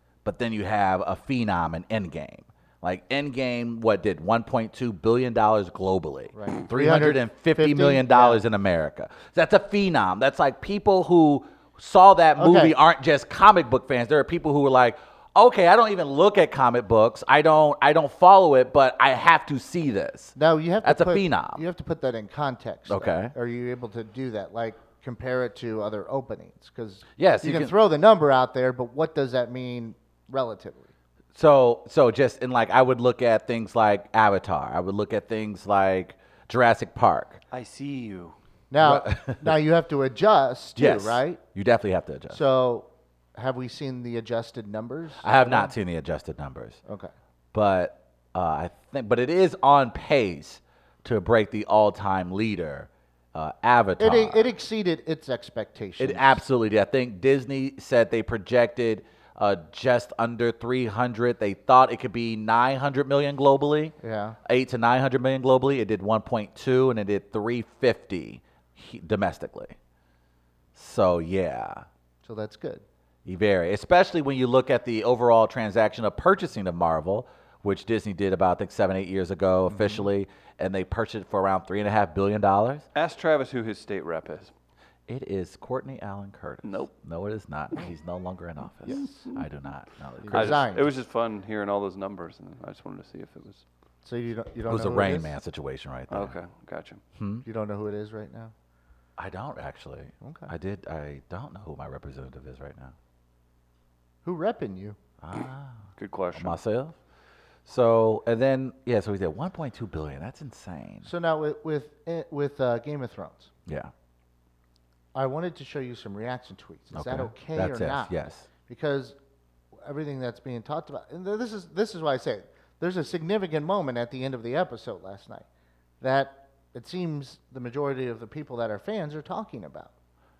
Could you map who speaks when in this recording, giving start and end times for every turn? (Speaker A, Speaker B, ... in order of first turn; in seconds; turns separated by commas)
Speaker A: 0.2-21.6, Speaker B: 6.3-8.4, Speaker B: 12.4-12.8, Speaker B: 20.4-30.9, Speaker A: 22.9-23.3, Speaker A: 27.2-27.7, Speaker A: 31.4-37.4, Speaker C: 37.5-38.4, Speaker B: 38.7-41.4, Speaker A: 38.8-39.6, Speaker A: 40.8-42.4, Speaker B: 42.3-45.7, Speaker A: 45.2-46.8, Speaker B: 46.9-47.1, Speaker A: 47.5-54.5, Speaker B: 54.0-56.4, Speaker A: 56.0-63.9, Speaker B: 64.0-64.4, Speaker A: 64.5-69.8, Speaker A: 70.8-71.8, Speaker B: 72.2-72.8, Speaker A: 73.3-82.8, Speaker B: 79.7-80.1, Speaker C: 83.0-84.5, Speaker A: 85.1-90.6, Speaker C: 86.6-86.9, Speaker B: 88.8-89.3, Speaker C: 89.0-89.4, Speaker B: 90.2-90.9, Speaker C: 90.3-93.6, Speaker B: 94.0-95.3, Speaker A: 94.7-96.4, Speaker C: 96.1-97.0, Speaker A: 97.2-97.4, Speaker B: 97.5-98.5, Speaker A: 99.2-103.0, Speaker B: 100.2-100.5, Speaker B: 104.2-105.0, Speaker A: 105.2-107.0, Speaker C: 106.0-106.6, Speaker A: 107.7-111.1, Speaker B: 111.0-113.5, Speaker A: 113.7-113.9, Speaker B: 115.2-119.2, Speaker A: 116.9-118.5, Speaker B: 119.8-125.5, Speaker B: 126.0-129.9